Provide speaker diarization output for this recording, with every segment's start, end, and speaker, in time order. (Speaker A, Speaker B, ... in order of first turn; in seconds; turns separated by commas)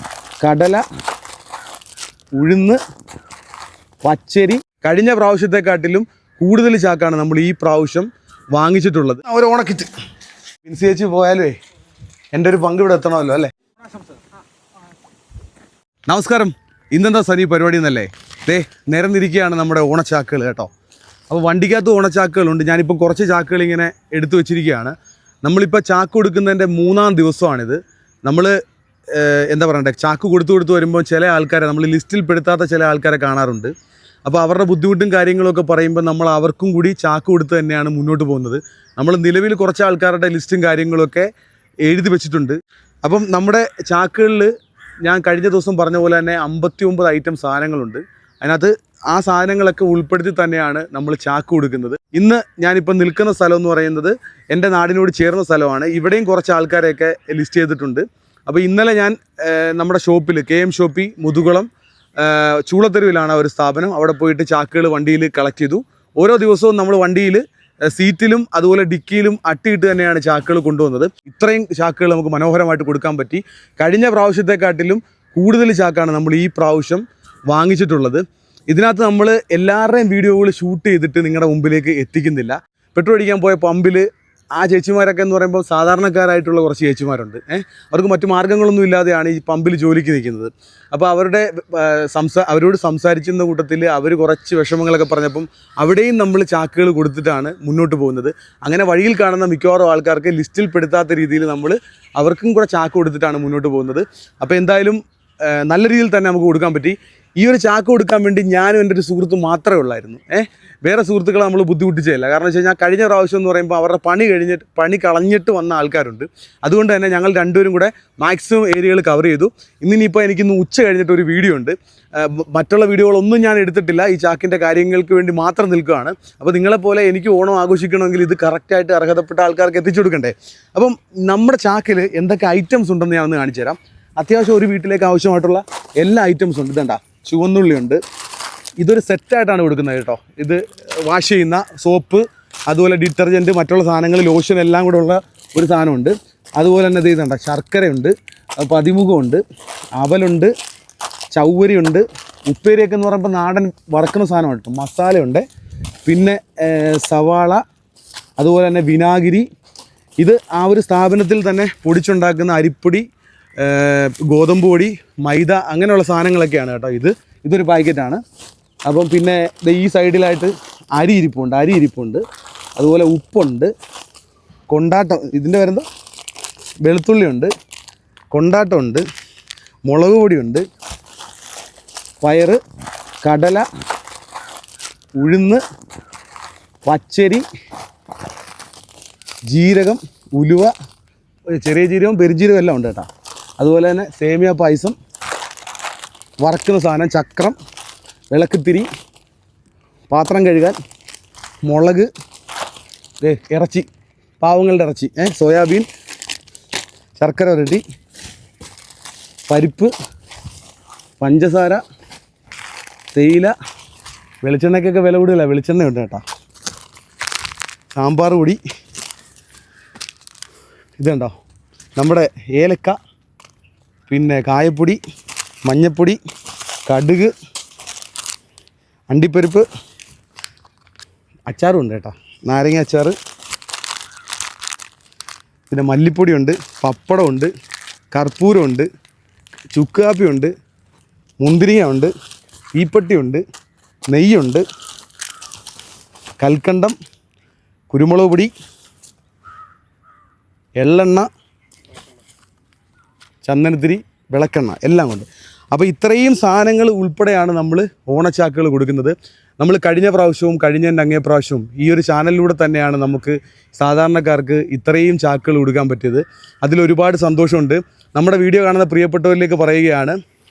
Speaker A: 0.4-0.8, Speaker A: 2.4-2.8, Speaker A: 4.0-9.9, Speaker A: 10.6-11.6, Speaker A: 12.3-13.5, Speaker A: 16.1-20.7, Speaker A: 21.3-28.5, Speaker A: 29.1-33.7, Speaker A: 34.3-41.3, Speaker A: 41.9-44.5, Speaker A: 45.0-61.7, Speaker A: 62.2-84.0, Speaker A: 84.6-138.0, Speaker A: 138.8-149.4, Speaker A: 149.9-150.5, Speaker A: 151.3-155.4, Speaker A: 156.1-157.6, Speaker A: 158.4-159.4, Speaker A: 160.2-163.0, Speaker A: 163.6-168.2, Speaker A: 168.9-172.2, Speaker A: 172.8-173.7, Speaker A: 174.7-175.8, Speaker A: 176.8-177.5, Speaker A: 178.3-179.0, Speaker A: 179.9-180.6, Speaker A: 182.2-182.6, Speaker A: 183.2-183.6, Speaker A: 185.2-185.6, Speaker A: 186.8-187.4, Speaker A: 189.5-190.7, Speaker A: 191.5-193.1, Speaker A: 193.6-194.9, Speaker A: 196.4-197.6, Speaker A: 198.3-198.9, Speaker A: 200.1-200.8, Speaker A: 201.7-202.1, Speaker A: 203.2-203.8, Speaker A: 204.4-205.9, Speaker A: 207.2-207.8, Speaker A: 209.5-209.9, Speaker A: 211.2-211.8, Speaker A: 213.1-213.5, Speaker A: 214.4-216.2, Speaker A: 217.9-218.6, Speaker A: 221.0-221.3, Speaker A: 222.0-222.9, Speaker A: 224.1-225.0, Speaker A: 225.7-226.2, Speaker A: 226.9-227.3, Speaker A: 229.1-229.7, Speaker A: 231.5-233.1, Speaker A: 235.7-237.5, Speaker A: 238.1-238.9, Speaker A: 239.7-240.5, Speaker A: 241.4-242.1, Speaker A: 242.8-243.4, Speaker A: 244.1-244.6, Speaker A: 246.4-246.9, Speaker A: 247.9-248.5, Speaker A: 250.8-251.3, Speaker A: 253.4-270.1